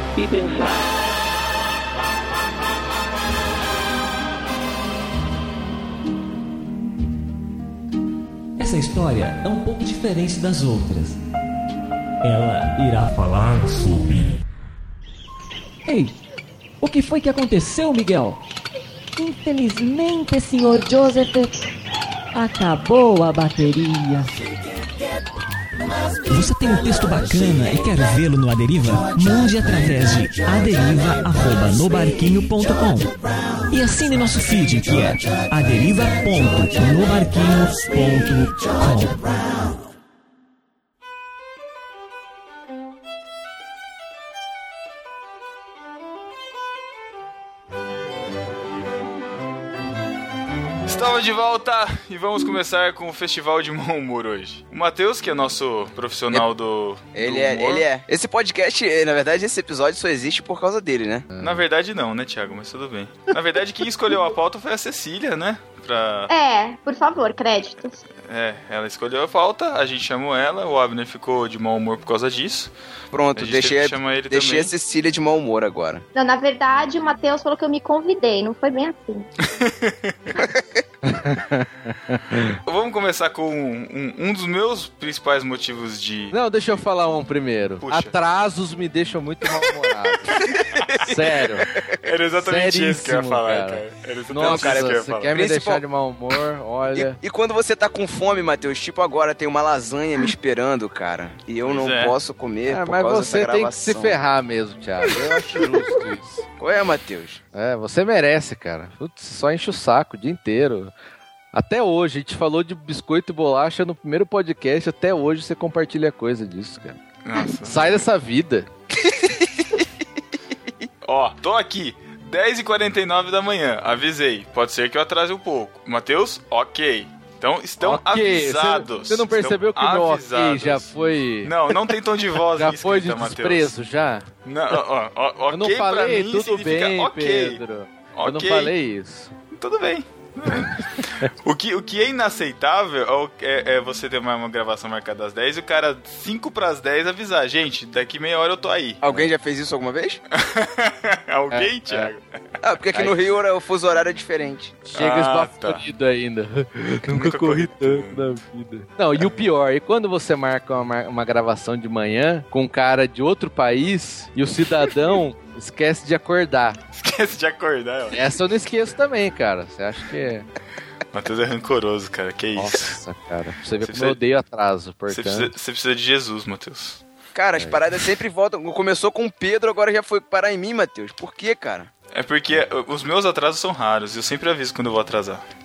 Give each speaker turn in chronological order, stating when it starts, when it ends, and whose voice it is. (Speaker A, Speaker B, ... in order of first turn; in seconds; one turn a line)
Speaker A: 0.2-0.8
Speaker A: 8.6-11.2
Speaker A: 12.2-14.2
Speaker A: 16.8-18.4
Speaker B: 16.9-17.4
Speaker B: 19.2-21.5
Speaker B: 22.3-24.3
Speaker A: 26.3-33.1
Speaker A: 33.7-39.3
Speaker C: 50.9-57.9
Speaker D: 57.1-61.3
Speaker E: 61.3-61.6
Speaker C: 61.4-66.3
Speaker F: 66.3-68.0
Speaker C: 68.3-72.7
Speaker D: 73.1-76.0
Speaker C: 73.3-74.7
Speaker F: 76.1-79.3
Speaker C: 79.5-80.1
Speaker E: 81.1-82.6
Speaker C: 82.6-86.3
Speaker E: 86.3-91.7
Speaker C: 87.8-88.2
Speaker C: 92.0-95.3
Speaker E: 92.4-97.2
Speaker D: 94.4-95.8
Speaker D: 96.9-104.2
Speaker C: 101.6-102.2
Speaker E: 102.7-106.4
Speaker D: 106.6-107.4
Speaker E: 107.5-110.9
Speaker E: 111.5-117.0
Speaker C: 117.2-118.0
Speaker E: 117.6-118.7
Speaker C: 121.0-130.9
Speaker E: 127.8-131.9
Speaker C: 131.4-133.7
Speaker E: 132.5-134.3
Speaker C: 134.4-137.6
Speaker E: 135.5-139.3
Speaker C: 138.1-138.7
Speaker C: 139.5-149.0
Speaker D: 149.0-150.2
Speaker C: 150.3-152.2
Speaker E: 151.5-152.1
Speaker D: 152.6-154.8
Speaker E: 154.8-166.8
Speaker C: 154.9-155.8
Speaker C: 157.1-158.4
Speaker C: 159.2-159.4
Speaker C: 166.9-168.3
Speaker E: 168.1-170.5
Speaker C: 171.1-173.0
Speaker E: 172.6-175.5
Speaker C: 173.8-174.2
Speaker C: 175.1-177.0
Speaker D: 177.3-181.9
Speaker E: 177.5-177.8
Speaker C: 182.1-185.4